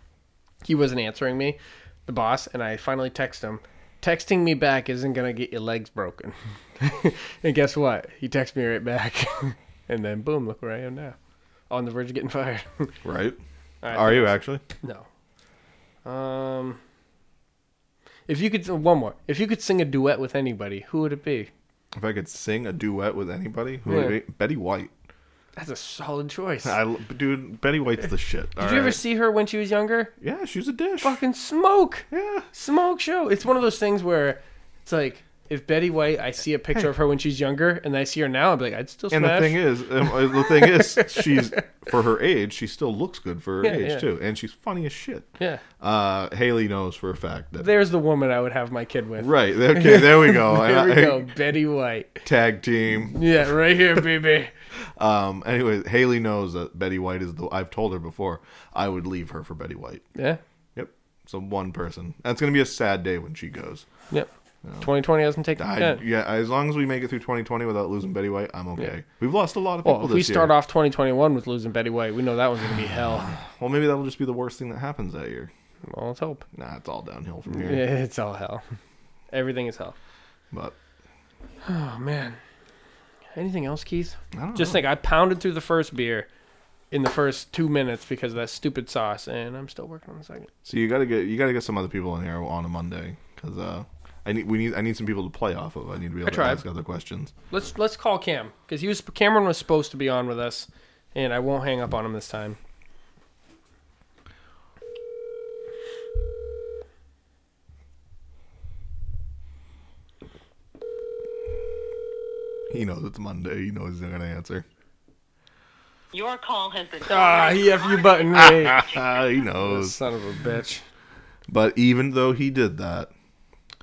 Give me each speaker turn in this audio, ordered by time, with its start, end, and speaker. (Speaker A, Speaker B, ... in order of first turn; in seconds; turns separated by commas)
Speaker A: 0.6-11.1, Speaker A: 11.7-13.0, Speaker B: 13.0-13.4, Speaker A: 13.8-15.1, Speaker B: 13.9-14.6, Speaker A: 16.0-16.8, Speaker A: 18.3-21.5, Speaker B: 21.9-24.9, Speaker A: 23.9-24.2, Speaker A: 25.6-26.8, Speaker B: 26.6-29.0, Speaker A: 28.6-30.1, Speaker B: 30.2-31.2, Speaker A: 31.0-41.6, Speaker B: 32.1-32.5, Speaker B: 39.1-47.7, Speaker A: 43.6-44.0, Speaker A: 47.6-52.2, Speaker B: 49.2-51.3, Speaker B: 52.2-53.2, Speaker A: 53.1-54.5, Speaker B: 55.0-60.0, Speaker A: 60.1-60.4, Speaker B: 60.7-63.8, Speaker A: 64.8-66.0, Speaker B: 65.6-70.5, Speaker A: 69.8-73.4, Speaker B: 73.4-75.5, Speaker A: 75.9-76.4, Speaker B: 76.5-77.8, Speaker A: 77.5-78.6, Speaker A: 79.3-79.9, Speaker A: 81.6-82.4, Speaker A: 83.3-86.3, Speaker B: 84.3-84.8, Speaker A: 86.9-90.5, Speaker B: 90.6-97.3, Speaker A: 96.2-96.6, Speaker A: 97.5-102.6, Speaker B: 112.7-114.6, Speaker C: 116.1-119.1, Speaker A: 117.1-118.9, Speaker B: 118.3-120.0, Speaker A: 119.6-120.8, Speaker B: 121.5-123.1